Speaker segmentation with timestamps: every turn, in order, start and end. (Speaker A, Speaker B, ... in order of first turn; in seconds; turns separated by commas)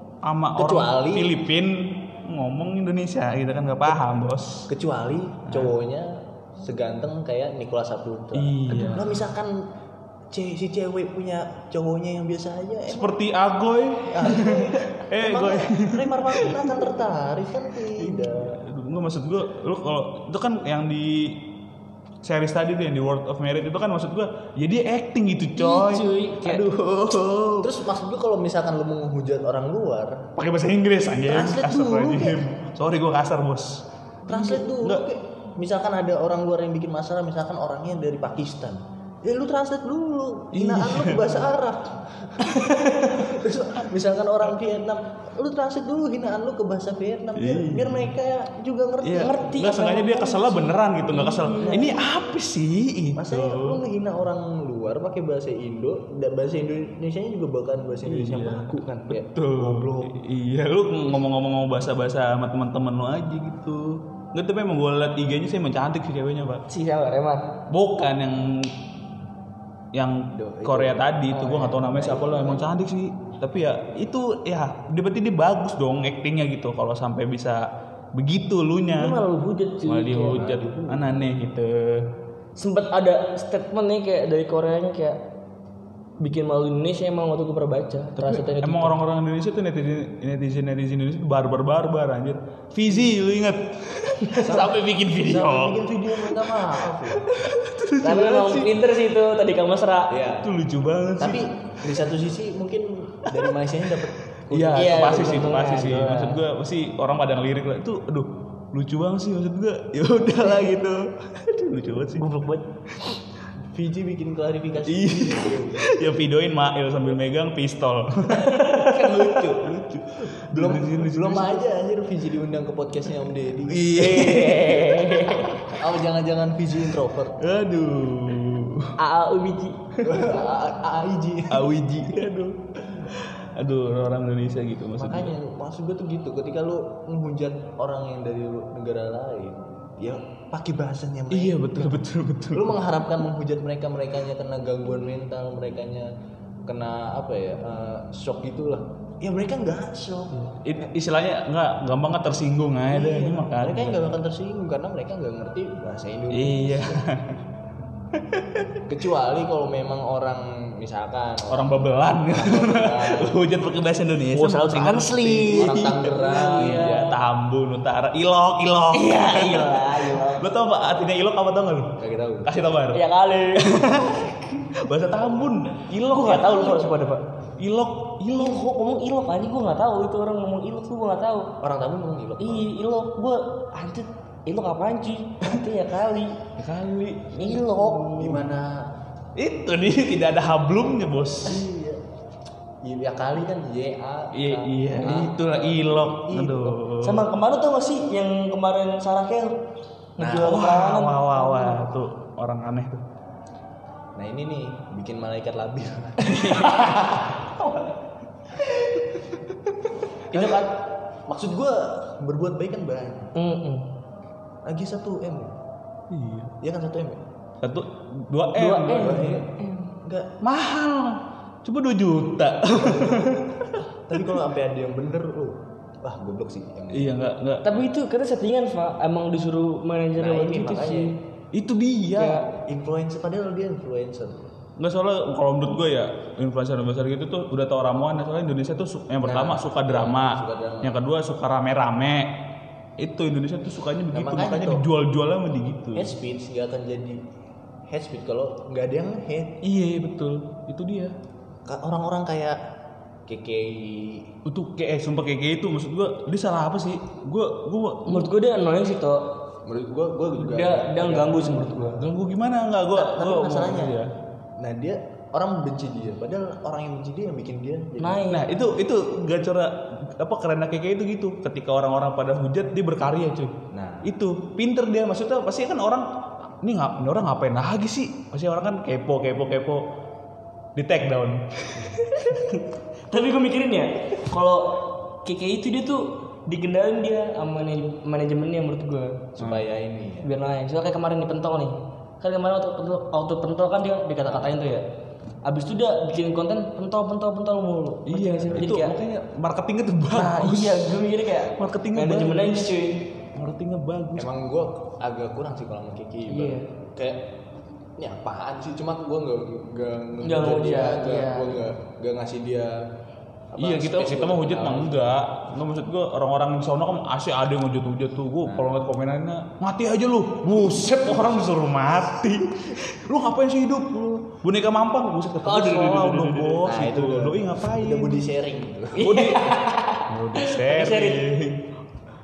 Speaker A: 0.2-4.7, Speaker B: 0.6-1.4, Speaker B: 4.7-9.6, Speaker A: 5.5-5.7, Speaker A: 8.3-9.2, Speaker B: 10.3-13.2, Speaker A: 12.9-16.9, Speaker B: 14.1-18.6, Speaker A: 18.0-21.4, Speaker A: 22.2-27.7, Speaker C: 25.6-26.7, Speaker B: 27.6-30.3, Speaker A: 30.4-35.0, Speaker B: 31.2-32.5, Speaker B: 34.3-42.4, Speaker A: 40.5-41.5, Speaker A: 42.4-43.3, Speaker B: 43.0-49.4, Speaker A: 47.4-48.1, Speaker A: 49.0-53.8, Speaker C: 49.2-52.0, Speaker B: 51.6-51.9, Speaker B: 53.2-60.2, Speaker A: 58.0-66.6, Speaker C: 66.7-67.5, Speaker A: 67.7-68.7, Speaker A: 69.9-77.6, Speaker B: 70.3-71.2, Speaker C: 71.3-72.2, Speaker B: 71.9-72.7, Speaker A: 78.2-79.2, Speaker C: 78.9-80.5, Speaker A: 79.8-82.1, Speaker B: 80.3-81.2, Speaker C: 82.6-85.2, Speaker C: 86.2-88.9, Speaker A: 88.2-98.7, Speaker B: 94.4-97.3, Speaker C: 98.0-100.1, Speaker B: 100.1-100.5, Speaker A: 100.4-101.5, Speaker B: 101.2-105.6, Speaker A: 103.3-103.5, Speaker A: 104.5-112.3, Speaker C: 104.7-106.4, Speaker C: 112.0-112.7, Speaker B: 113.7-115.9, Speaker A: 114.9-121.6, Speaker C: 118.4-119.4, Speaker B: 120.5-124.3, Speaker A: 123.7-125.8, Speaker C: 124.0-125.6, Speaker B: 125.7-127.4, Speaker A: 127.4-128.9, Speaker C: 129.0-129.8, Speaker B: 130.0-131.7, Speaker A: 131.5-135.3, Speaker B: 135.0-142.0, Speaker A: 141.3-142.8, Speaker B: 142.5-146.1, Speaker B: 146.7-150.5, Speaker A: 150.4-154.2, Speaker B: 152.9-157.0, Speaker A: 156.3-157.4, Speaker A: 158.3-158.8, Speaker B: 158.9-163.4, Speaker A: 161.5-173.0, Speaker C: 164.3-167.2, Speaker B: 165.2-166.9, Speaker C: 168.9-170.5, Speaker B: 172.0-172.6, Speaker C: 172.9-174.3, Speaker A: 173.5-176.9, Speaker C: 176.0-177.2, Speaker A: 177.6-178.6, Speaker C: 178.3-181.5, Speaker B: 181.6-182.7, Speaker C: 182.4-186.4, Speaker A: 186.6-188.5, Speaker C: 187.3-188.2, Speaker B: 188.2-188.9, Speaker A: 189.4-191.7, Speaker B: 191.4-192.0, Speaker B: 192.8-196.8, Speaker A: 194.3-197.3, Speaker C: 197.0-199.6, Speaker C: 200.2-201.9, Speaker B: 200.2-200.6, Speaker A: 200.4-203.0, Speaker B: 204.2-207.0, Speaker A: 206.2-207.4, Speaker B: 210.3-213.3, Speaker C: 213.3-213.9, Speaker B: 214.7-215.5, Speaker A: 216.1-216.5, Speaker B: 216.6-217.2, Speaker A: 217.6-219.3, Speaker C: 218.6-219.9, Speaker B: 218.9-220.3, Speaker A: 220.4-223.8, Speaker B: 222.7-227.2, Speaker A: 226.9-227.8, Speaker C: 227.6-231.2, Speaker B: 230.2-231.2, Speaker A: 231.5-232.4, Speaker C: 232.2-232.5, Speaker B: 232.6-234.5, Speaker A: 234.8-242.4, Speaker B: 239.2-241.0, Speaker A: 243.0-246.1, Speaker B: 244.1-244.8, Speaker B: 245.9-247.2, Speaker B: 247.9-249.6, Speaker A: 249.6-251.2, Speaker B: 251.7-252.6, Speaker B: 253.3-254.3, Speaker A: 254.5-258.3, Speaker C: 258.1-259.2, Speaker B: 259.6-261.9, Speaker C: 260.4-262.1, Speaker A: 262.0-264.1, Speaker B: 262.9-264.0, Speaker B: 264.6-268.3, Speaker C: 268.0-268.5, Speaker A: 268.3-276.1, Speaker B: 273.7-274.1, Speaker A: 276.6-279.8, Speaker A: 280.8-281.9, Speaker C: 282.0-289.3, Speaker B: 289.4-290.3, Speaker C: 290.2-294.9, Speaker B: 294.2-294.5, Speaker C: 295.4-299.0, Speaker A: 298.1-301.0, Speaker C: 300.1-303.0, Speaker A: 301.6-302.8, Speaker A: 303.3-304.3, Speaker B: 304.2-307.3, Speaker C: 306.3-306.7, Speaker B: 308.0-312.8, Speaker C: 310.2-311.7, Speaker B: 313.5-315.2, Speaker A: 313.6-328.2, Speaker B: 318.4-318.8, Speaker C: 325.4-326.7, Speaker B: 326.6-329.2, Speaker A: 329.0-331.7, Speaker C: 329.0-331.3